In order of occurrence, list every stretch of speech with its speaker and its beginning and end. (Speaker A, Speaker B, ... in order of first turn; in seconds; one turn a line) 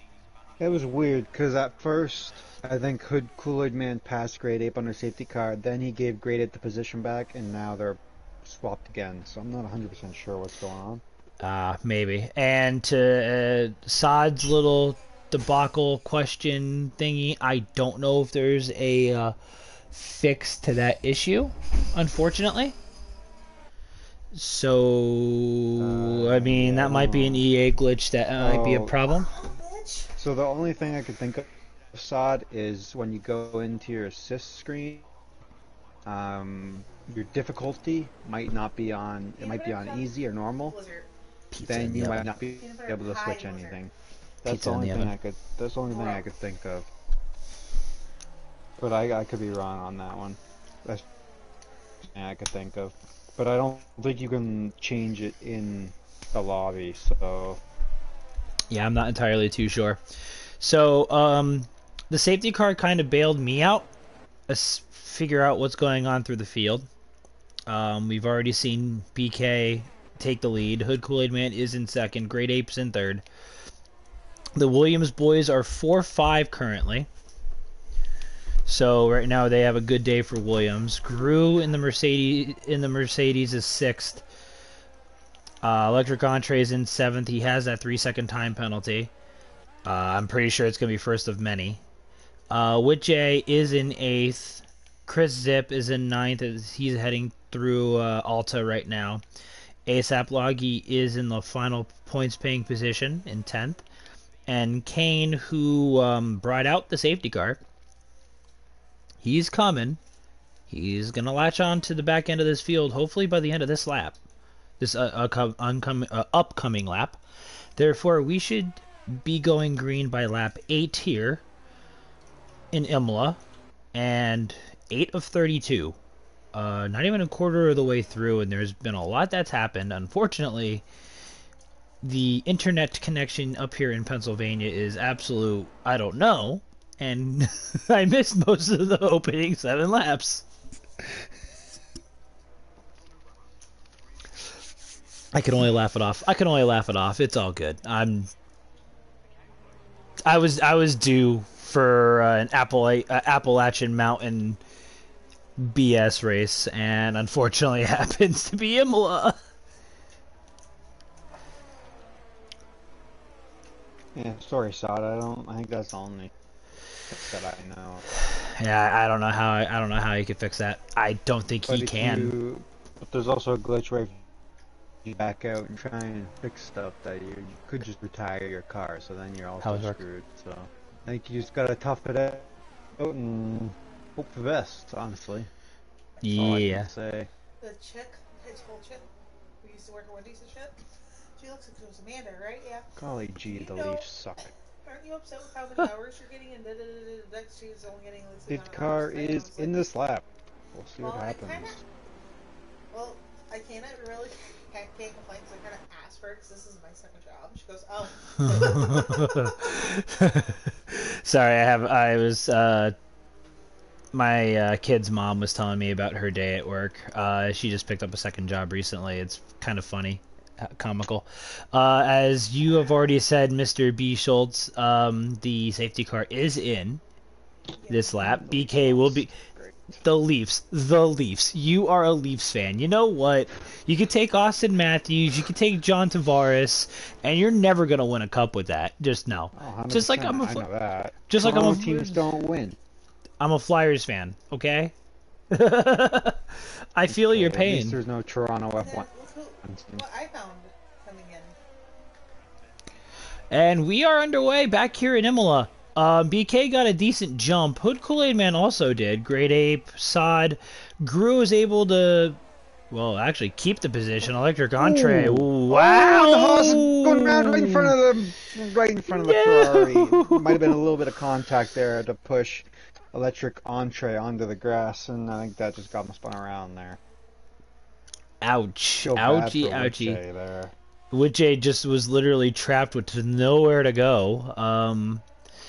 Speaker A: 0.6-11.0
Speaker B: 11.4-19.4
Speaker B: 19.9-22.8
Speaker B: 24.3-29.3
Speaker A: 25.8-27.5
Speaker A: 28.4-29.0
Speaker C: 29.2-30.1
Speaker A: 30.2-35.0
Speaker A: 36.0-40.8
Speaker C: 39.4-41.1
Speaker B: 41.5-42.3
Speaker A: 41.6-46.9
Speaker C: 42.5-43.8
Speaker B: 44.5-45.1
Speaker C: 45.9-46.2
Speaker A: 48.8-51.0
Speaker A: 52.0-57.6
Speaker B: 58.7-60.0
Speaker B: 60.6-63.9
Speaker B: 64.5-66.9
Speaker B: 67.7-73.2
Speaker B: 74.5-77.1
Speaker B: 78.7-84.2
Speaker B: 85.6-89.1
Speaker B: 89.8-91.8
Speaker B: 92.5-99.2
Speaker B: 99.8-103.8
Speaker B: 104.5-107.6
Speaker B: 109.2-110.0
Speaker B: 110.7-114.2
Speaker B: 114.8-117.2
Speaker B: 117.8-121.4
Speaker B: 122.7-123.4
Speaker B: 123.9-126.0
Speaker B: 126.5-130.8
Speaker B: 132.0-140.4
Speaker B: 145.3-148.3
Speaker B: 150.2-154.6
Speaker B: 155.6-159.4
Speaker A: 164.1-166.3
Speaker A: 167.1-168.0
Speaker B: 168.2-172.3
Speaker A: 171.7-174.2
Speaker A: 175.0-185.5
Speaker B: 179.6-180.0
Speaker B: 186.2-186.9
Speaker A: 186.3-187.3
Speaker C: 187.6-189.1
Speaker C: 189.6-190.8
Speaker C: 191.4-192.9
Speaker A: 193.0-194.5
Speaker C: 193.5-194.0
Speaker C: 194.8-199.8
Speaker A: 198.5-201.8
Speaker C: 201.0-201.8
Speaker C: 202.9-209.7
Speaker B: 208.4-212.9
Speaker B: 214.1-227.0
Speaker C: 227.8-228.2
Speaker B: 227.9-229.3
Speaker A: 228.1-230.0
Speaker B: 230.0-240.7
Speaker A: 239.5-242.8
Speaker B: 241.3-242.2
Speaker B: 243.4-244.9
Speaker B: 245.5-248.0
Speaker A: 247.1-249.1
Speaker C: 248.8-251.6
Speaker A: 249.6-250.1
Speaker B: 253.5-262.4
Speaker B: 262.9-268.0
Speaker A: 264.8-277.0
Speaker B: 269.1-270.8
Speaker B: 278.4-280.2
Speaker A: 279.0-280.7
Speaker B: 281.1-285.2